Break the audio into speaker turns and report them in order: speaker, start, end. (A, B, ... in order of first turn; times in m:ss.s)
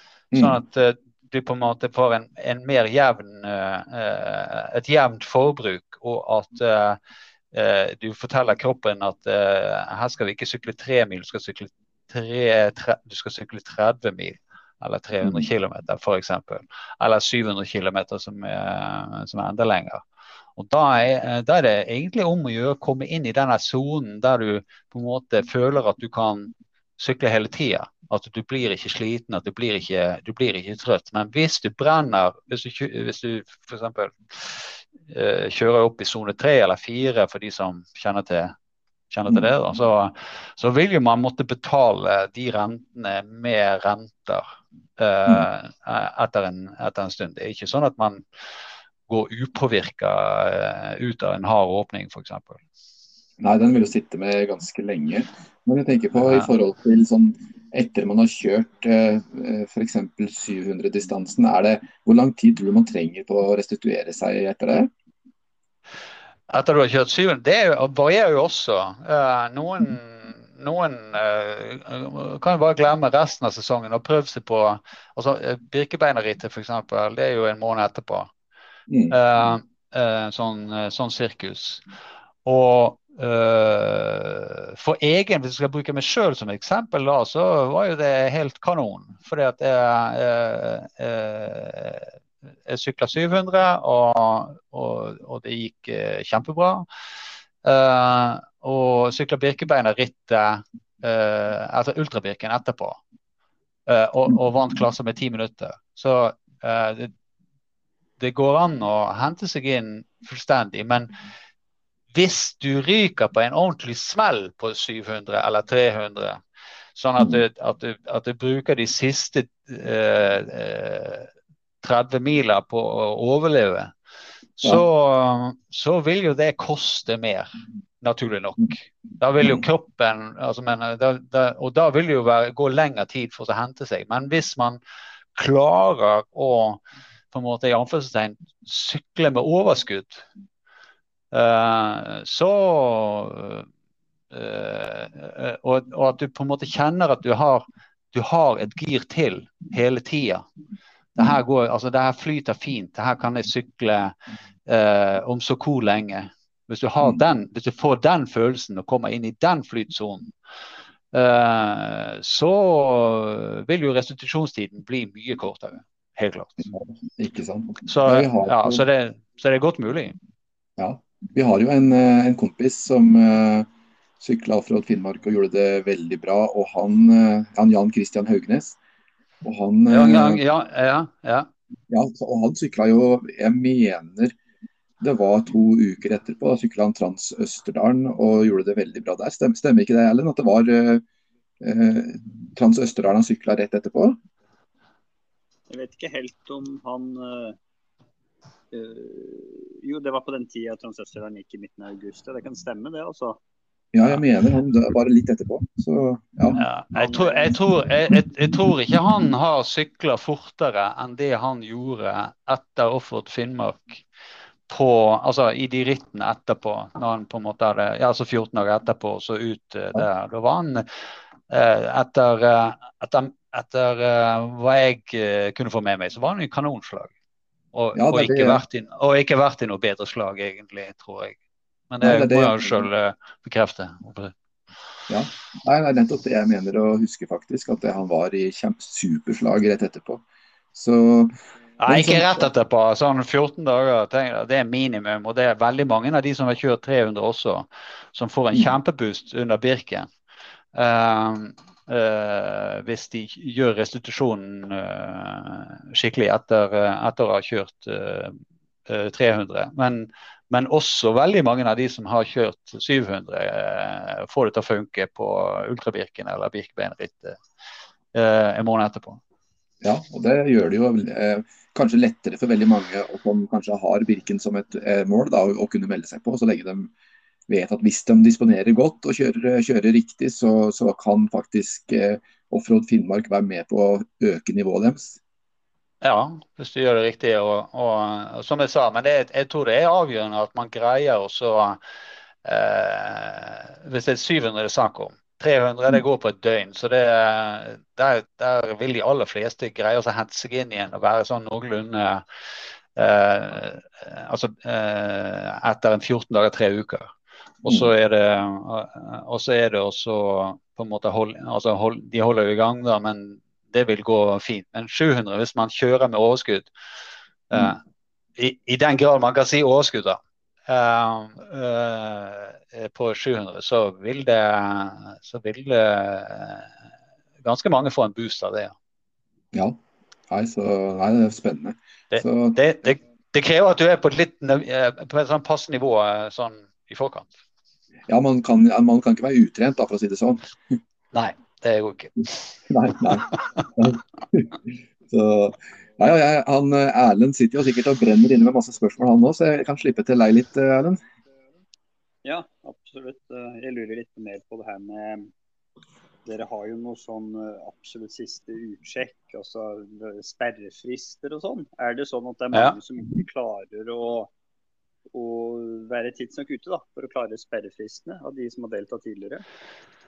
0:00.3-0:00.6 A
0:00.4-0:07.0 B
0:07.5-0:20.0 B
0:15.2-0:15.5 A
0:20.6-0:38.6 B
0:39.1-0:44.5 B
0:45.0-0:48.2 B
0:49.1-0:52.6 B
0:53.4-1:04.9 A
1:06.5-1:18.3 B
1:18.9-1:19.2 A
1:19.1-1:21.8 B
1:22.4-1:32.1 B
1:32.7-1:36.9 B
1:37.6-1:43.0 B
1:43.9-1:47.1 B
1:48.2-1:51.1 B
1:52.1-1:56.4 B
1:57.0-2:01.3 B
2:01.8-2:03.9 B
2:04.6-2:07.5 B
2:08.0-2:14.8 B
2:15.3-2:20.3 B
2:21.3-2:23.7 B
2:24.3-2:30.5 B
2:31.2-2:34.2 B
2:34.7-2:40.3 B
2:41.1-2:46.6 B
2:46.7-2:48.8 A
2:47.9-2:50.2 B
2:50.8-2:53.7 A
2:54.2-2:58.8 A
2:59.4-3:00.4 A
2:59.9-3:01.5 B
3:01.9-3:04.4 A
3:05.0-3:11.0 A
3:11.6-3:14.2 A
3:15.7-3:17.6 C
3:18.7-3:23.4 C
3:23.9-3:26.6 A
3:26.6-3:34.0 B
3:27.0-3:27.5 C
3:34.7-3:40.9 B
3:41.5-3:47.1 B
3:47.7-3:51.4 B
3:48.0-3:48.6 A
3:51.9-3:54.4 B
3:52.0-3:52.9 A
3:55.1-4:00.2 A
4:00.7-4:01.3 A
4:01.8-4:10.1 B
4:01.9-4:02.5 A
4:10.8-4:27.4 B
4:28.1-4:29.2 B
4:29.8-4:36.9 A
4:37.5-4:45.2 A
4:46.0-4:51.8 B
4:52.4-5:02.2 B
5:03.0-5:07.1 B
5:07.6-5:16.7 B
5:17.5-5:17.8 B
5:18.4-5:26.7 B
5:27.4-5:28.8 B
5:30.3-5:32.6 A
5:32.1-5:37.3 B
5:38.1-5:40.4 A
5:41.1-5:42.5 B
5:42.7-5:51.0 A
5:43.3-5:43.6 B
5:52.2-5:55.3 C
5:56.2-6:04.3 C
6:05.1-6:09.4 C